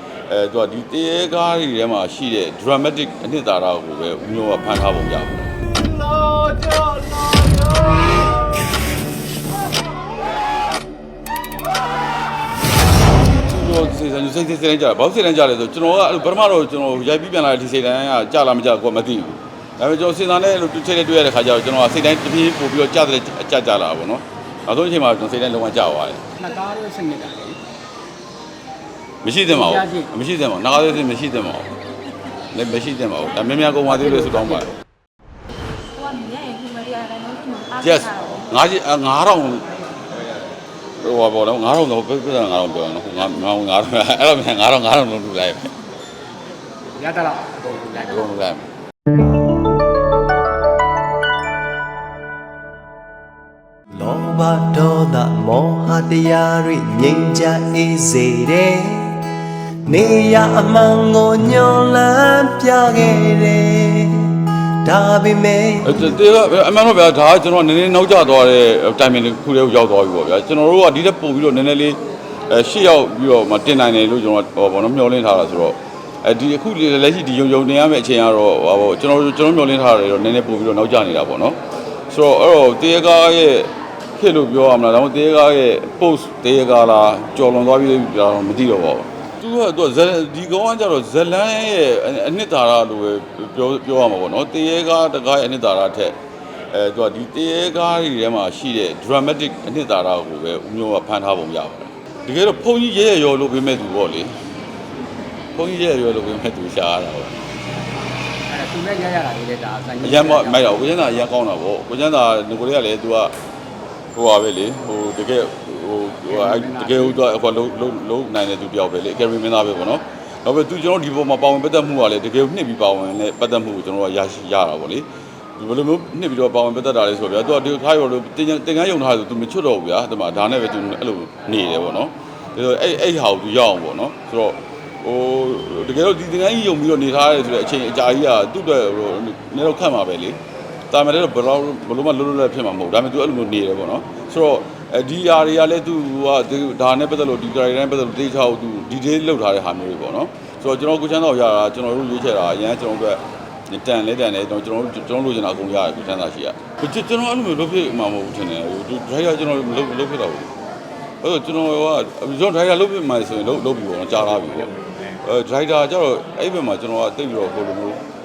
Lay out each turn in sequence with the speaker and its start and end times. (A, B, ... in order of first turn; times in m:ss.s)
0:00.3-0:07.8 A
0:13.4-0:26.2 A
0:26.4-0:27.6 B
0:29.2-0:31.7 A
0:29.5-0:30.1 B
0:32.5-0:34.7 A
0:33.9-0:34.6 B
0:35.9-0:38.4 C
0:37.8-0:39.6 A
0:41.0-0:45.8 A
0:47.0-0:48.2 B
0:48.0-0:48.7 A
0:53.9-0:59.2 D
0:59.8-1:06.2 D
1:05.8-1:21.6 A
1:22.1-1:36.2 A
1:36.7-1:44.3 A
1:45.5-1:47.4 A
1:48.5-1:50.9 B
1:50.0-1:53.3 A
1:54.1-2:20.4 A
1:56.3-1:57.2 B
2:20.9-2:40.5 A
2:41.2-2:48.0 A